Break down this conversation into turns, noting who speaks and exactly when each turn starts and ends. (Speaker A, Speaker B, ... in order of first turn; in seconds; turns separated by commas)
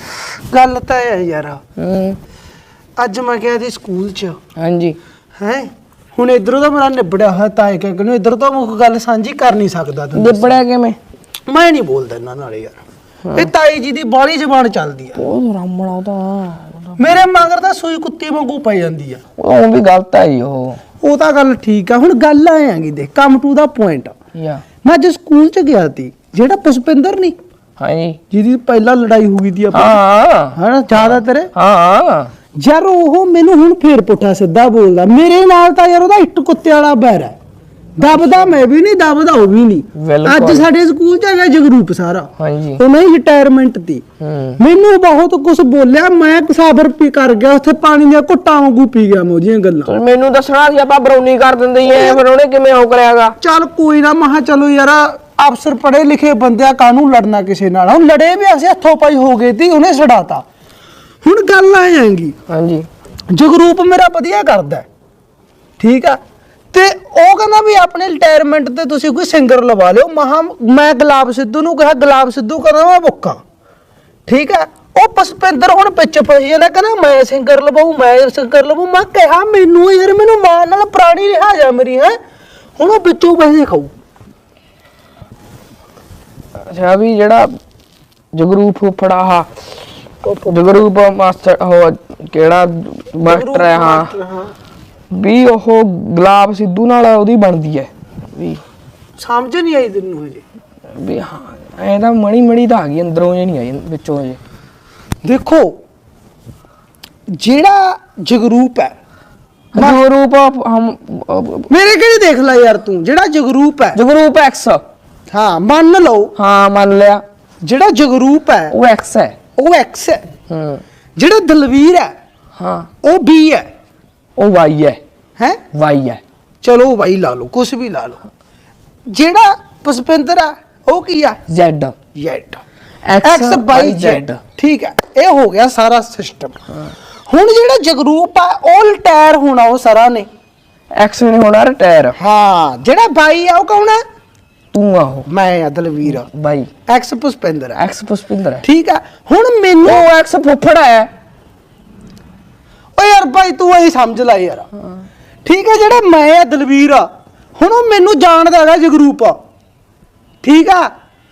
Speaker A: 0.5-1.6, Speaker B: 1.8-2.2, Speaker A: 3.0-4.4, Speaker B: 4.6-5.0, Speaker A: 5.4-10.6, Speaker B: 10.2-11.0, Speaker A: 11.5-12.8, Speaker B: 13.2-13.5, Speaker A: 13.3-15.2, Speaker B: 15.2-17.2, Speaker A: 17.0-19.2, Speaker B: 19.4-20.8, Speaker A: 21.0-24.1, Speaker B: 24.4-24.6, Speaker A: 24.8-27.4, Speaker B: 27.8-28.2, Speaker A: 28.3-30.0, Speaker B: 29.7-32.3, Speaker A: 30.5-31.5, Speaker A: 32.6-37.4, Speaker A: 38.0-44.0, Speaker B: 38.1-38.5, Speaker B: 40.0-40.7, Speaker B: 42.4-42.8, Speaker B: 44.2-44.6, Speaker A: 44.6-49.9, Speaker B: 49.9-53.4, Speaker A: 51.9-52.2, Speaker A: 53.4-60.4, Speaker A: 61.2-62.4, Speaker B: 62.5-62.9, Speaker A: 63.3-64.9, Speaker A: 65.8-66.2, Speaker A: 66.7-73.4, Speaker A: 74.3-82.2, Speaker A: 82.8-83.9, Speaker B: 86.7-87.5, Speaker B: 88.3-89.5, Speaker B: 90.2-94.1, Speaker A: 93.2-94.5, Speaker B: 95.1-98.6, Speaker A: 99.2-100.4, Speaker B: 101.0-104.4, Speaker A: 105.2-105.7, Speaker A: 107.3-109.0, Speaker B: 109.8-111.7, Speaker A: 109.8-110.0, Speaker A: 111.7-114.0, Speaker B: 113.9-114.8, Speaker A: 115.3-116.3, Speaker B: 116.4-117.2, Speaker A: 117.6-118.7, Speaker B: 118.7-119.4, Speaker A: 119.6-120.2, Speaker B: 120.5-120.8, Speaker A: 121.2-122.1, Speaker B: 122.6-122.9, Speaker A: 123.0-123.7, Speaker B: 124.4-125.0, Speaker B: 125.7-126.2, Speaker A: 126.6-128.2, Speaker A: 129.1-131.4, Speaker B: 131.5-132.0, Speaker A: 132.2-132.6, Speaker B: 133.1-134.4, Speaker A: 133.2-136.6, Speaker A: 137.3-140.3, Speaker B: 141.0-142.2, Speaker A: 142.2-144.0, Speaker B: 144.7-145.3, Speaker A: 145.3-146.3, Speaker B: 146.1-146.7, Speaker A: 146.9-147.8, Speaker B: 147.8-148.6, Speaker A: 148.6-150.1, Speaker B: 149.8-151.1, Speaker A: 153.0-154.7, Speaker A: 155.4-159.3, Speaker A: 160.4-160.9